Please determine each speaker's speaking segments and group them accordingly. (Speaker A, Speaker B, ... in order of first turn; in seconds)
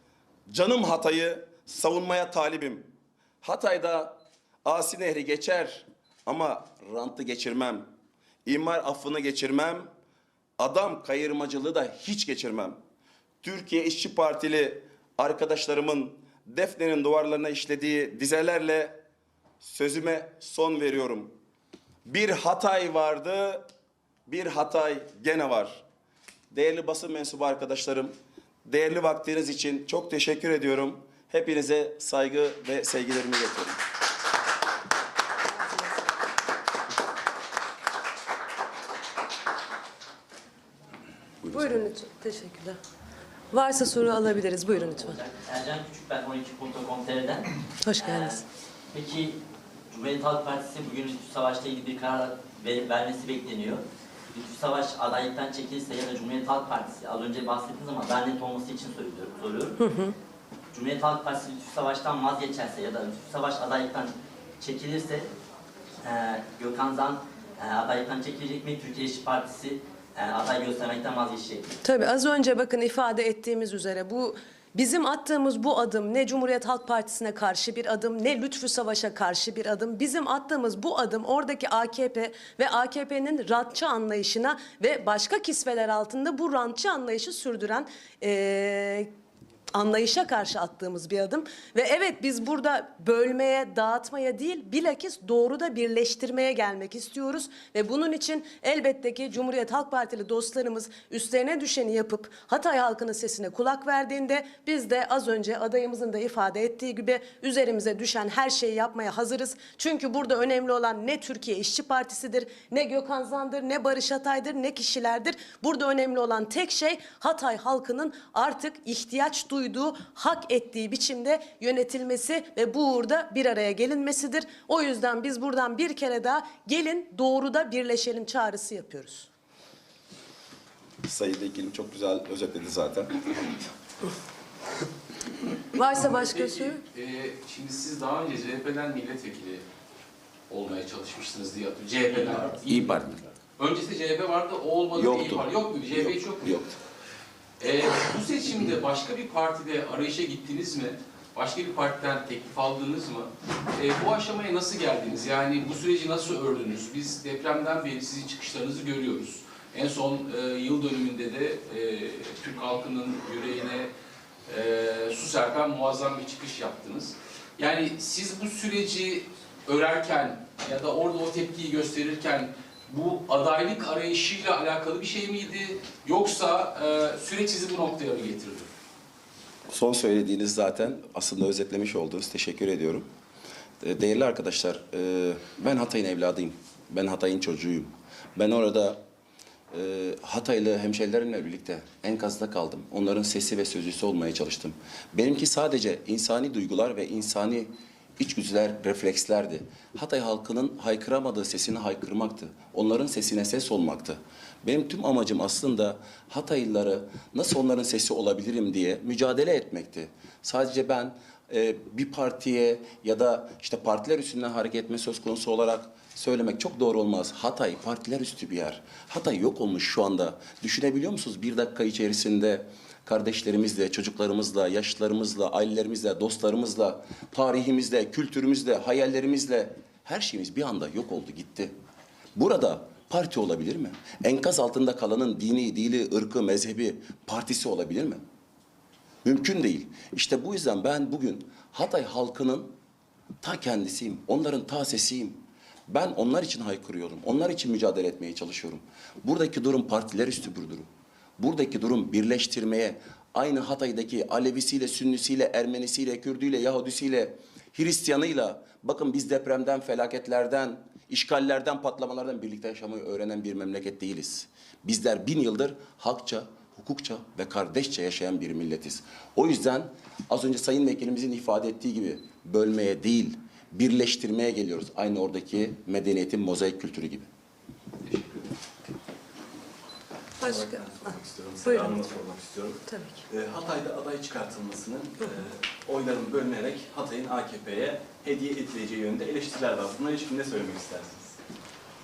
Speaker A: 0.5-2.9, 3.4-7.9, 8.5-9.9, 10.6-12.8, 13.4-19.0, 19.6-21.3, 22.1-23.6, 24.3-25.8, 26.5-28.1, 28.6-33.8, 41.4-41.8, 131.1-133.4, 142.7-143.2, 144.9-146.8, 179.7-183.1, 183.8-189.0, 189.7-231.7, 232.4-238.2, 239.2-242.7, 243.4-277.3
Speaker B: 35.7-36.0, 41.5-42.8, 43.5-45.2, 47.8-48.4, 59.8-60.1, 71.8-89.1, 89.7-129.3, 135.8-136.8, 280.4-280.9, 281.6-282.0, 282.9-283.2
Speaker C: 44.8-49.4, 49.9-53.8, 54.3-59.8, 60.7-65.3, 66.0-71.8
Speaker D: 136.1-139.7, 140.5-143.0, 143.6-146.6, 147.6-163.9, 164.5-178.7
Speaker E: 278.1-278.4, 280.4-291.3